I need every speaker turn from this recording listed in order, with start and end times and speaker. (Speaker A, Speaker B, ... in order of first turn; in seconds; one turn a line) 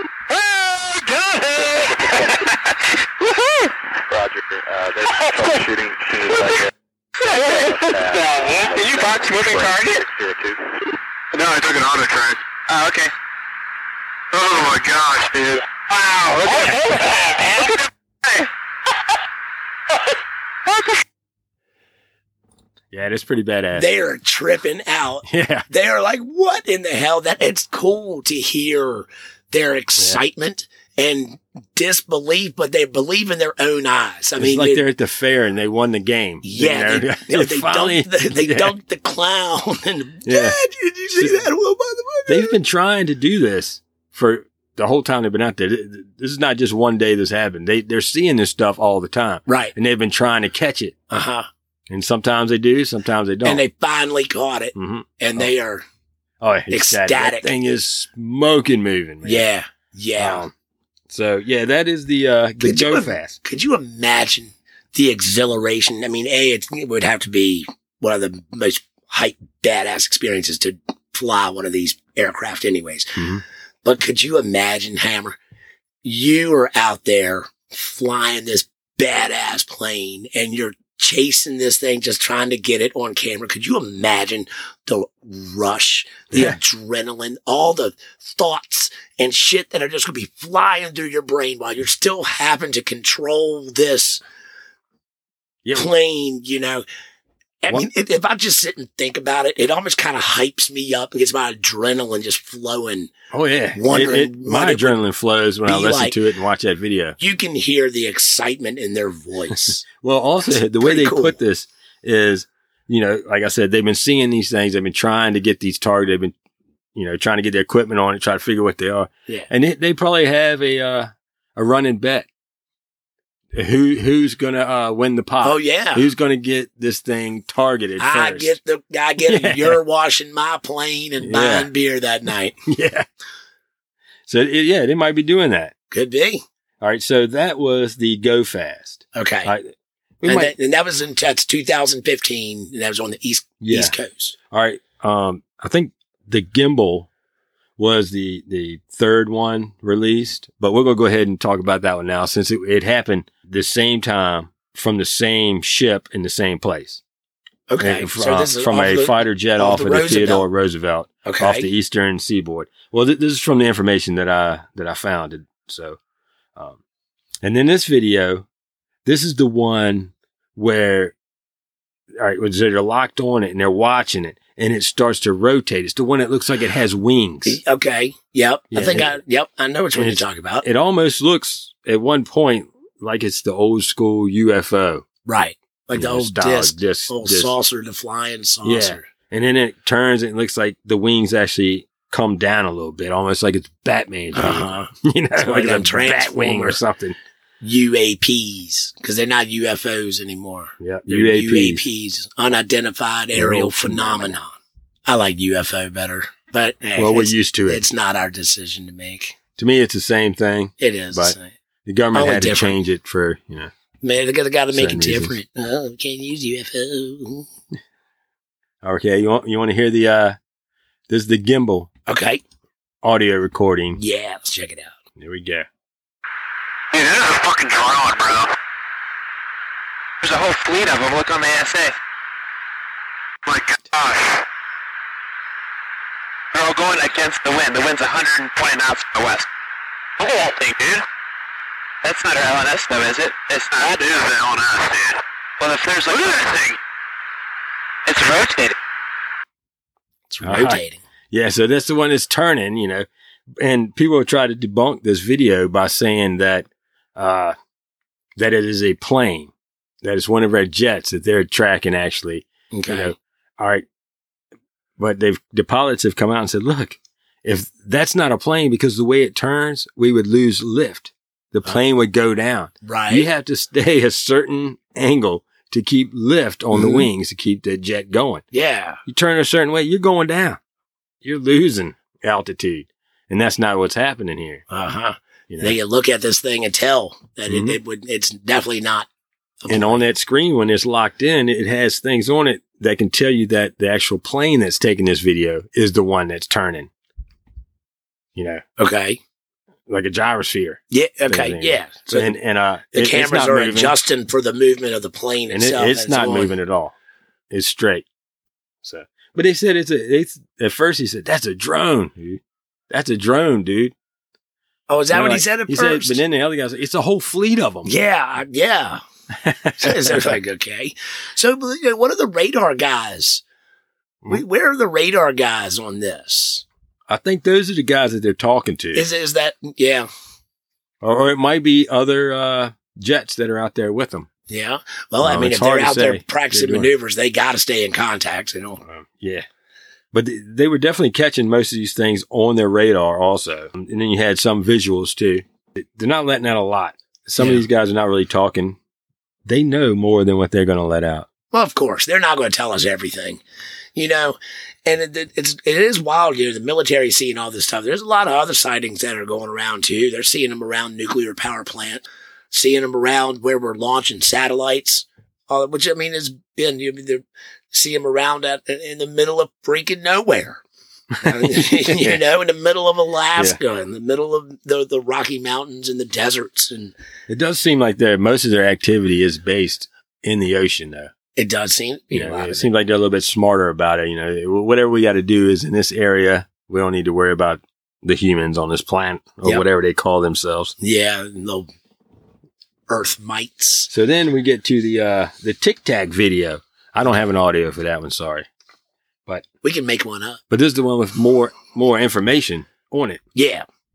Speaker A: 0.3-3.7
Speaker B: 1.6-2.5
Speaker B: 4.0-6.7
Speaker A: 5.2-5.4
Speaker A: 7.2-10.1
Speaker B: 7.3-10.7
Speaker A: 11.3-13.1
Speaker A: 14.3-18.5
Speaker A: 20.6-21.0
Speaker C: 22.9-23.9
Speaker D: 23.7-34.8
Speaker C: 25.3-25.6
Speaker C: 34.4-38.7
Speaker D: 36.4-42.5
Speaker C: 40.2-40.6
Speaker C: 42.3-50.9
Speaker D: 49.5-49.7
Speaker D: 51.1-51.5
Speaker C: 51.9-53.6
Speaker D: 53.4-55.8
Speaker C: 54.8-55.5
Speaker C: 56.4-59.4
Speaker D: 56.7-57.5
Speaker D: 59.2-60.5
Speaker C: 60.2-60.5
Speaker C: 61.1-63.4
Speaker D: 62.6-75.4
Speaker C: 73.2-73.4
Speaker D: 76.0-94.2
Speaker D: 95.7-96.8
Speaker D: 97.6-103.1
Speaker C: 103.3-107.2
Speaker D: 103.7-105.0
Speaker D: 105.7-106.2
Speaker D: 107.2-109.8
Speaker C: 109.9-116.3
Speaker D: 110.5-111.3
Speaker C: 116.9-122.3
Speaker C: 123.5-128.6
Speaker D: 125.4-126.1
Speaker D: 128.0-132.6
Speaker C: 129.2-129.8
Speaker C: 131.2-131.7
Speaker C: 132.7-133.1
Speaker C: 134.3-135.7
Speaker D: 135.9-136.4
Speaker C: 136.8-140.5
Speaker D: 139.1-139.5
Speaker D: 140.2-144.3
Speaker C: 143.6-143.9
Speaker C: 144.5-147.1
Speaker C: 147.8-157.0
Speaker D: 157.7-160.4
Speaker C: 157.8-166.0
Speaker D: 161.2-161.7
Speaker C: 167.4-168.4
Speaker C: 169.0-171.1
Speaker C: 172.2-177.6
Speaker D: 177.4-180.6
Speaker C: 178.7-179.1
Speaker C: 179.9-185.0
Speaker D: 185.2-189.1
Speaker C: 185.9-187.5
Speaker C: 188.6-197.2
Speaker D: 194.3-196.8
Speaker D: 197.6-204.5
Speaker C: 200.8-201.8
Speaker C: 203.3-204.4
Speaker D: 205.1-209.3
Speaker C: 206.9-207.8
Speaker C: 209.6-213.7
Speaker D: 210.8-211.5
Speaker D: 212.1-212.8
Speaker D: 214.0-217.5
Speaker C: 214.7-215.3
Speaker C: 218.8-220.4
Speaker C: 221.1-221.9
Speaker D: 222.1-222.4
Speaker C: 223.0-224.0
Speaker D: 223.9-224.9
Speaker C: 225.2-225.7
Speaker A: 226.9-228.5
Speaker A: 230.2-231.9
Speaker A: 233.4-234.4
Speaker A: 236.5-239.5
Speaker A: 240.2-241.0
Speaker A: 242.0-246.8
Speaker A: 248.1-248.7
Speaker D: 250.3-251.0
Speaker C: 250.4-250.8
Speaker C: 251.3-253.1
Speaker C: 253.6-257.5
Speaker C: 258.4-263.8
Speaker D: 262.7-263.1
Speaker C: 265.0-278.4
Speaker D: 272.8-273.3
Speaker D: 276.7-277.1
Speaker D: 278.5-279.0
Speaker C: 279.1-280.6
Speaker C: 281.2-284.6
Speaker D: 284.7-289.1
Speaker C: 285.5-285.8
Speaker C: 287.5-287.8
Speaker D: 289.6-290.0
Speaker C: 289.7-296.9
Speaker C: 298.4-298.6
Speaker D: 298.8-299.2
Speaker C: 299.9-303.9
Speaker D: 300.9-302.3
Speaker D: 302.9-306.5
Speaker C: 305.5-306.9
Speaker C: 307.5-308.0
Speaker C: 308.8-313.9
Speaker D: 314.9-316.2
Speaker C: 315.1-317.9
Speaker D: 317.8-319.0
Speaker C: 319.4-320.3
Speaker D: 319.8-323.4
Speaker D: 324.2-326.6
Speaker C: 327.1-329.1
Speaker D: 328.9-330.1
Speaker C: 331.0-334.3
Speaker D: 334.5-338.8
Speaker C: 335.2-336.9
Speaker C: 338.8-339.5
Speaker C: 340.1-348.8
Speaker C: 349.4-351.3
Speaker D: 351.5-353.4
Speaker D: 353.9-370.6
Speaker D: 371.2-376.9
Speaker C: 371.2-372.2
Speaker C: 377.3-381.1
Speaker D: 381.4-382.7
Speaker C: 382.1-390.7
Speaker D: 390.8-391.7
Speaker D: 392.9-393.9
Speaker C: 393.9-398.5
Speaker D: 399.6-400.4
Speaker C: 400.5-403.2
Speaker D: 403.3-403.6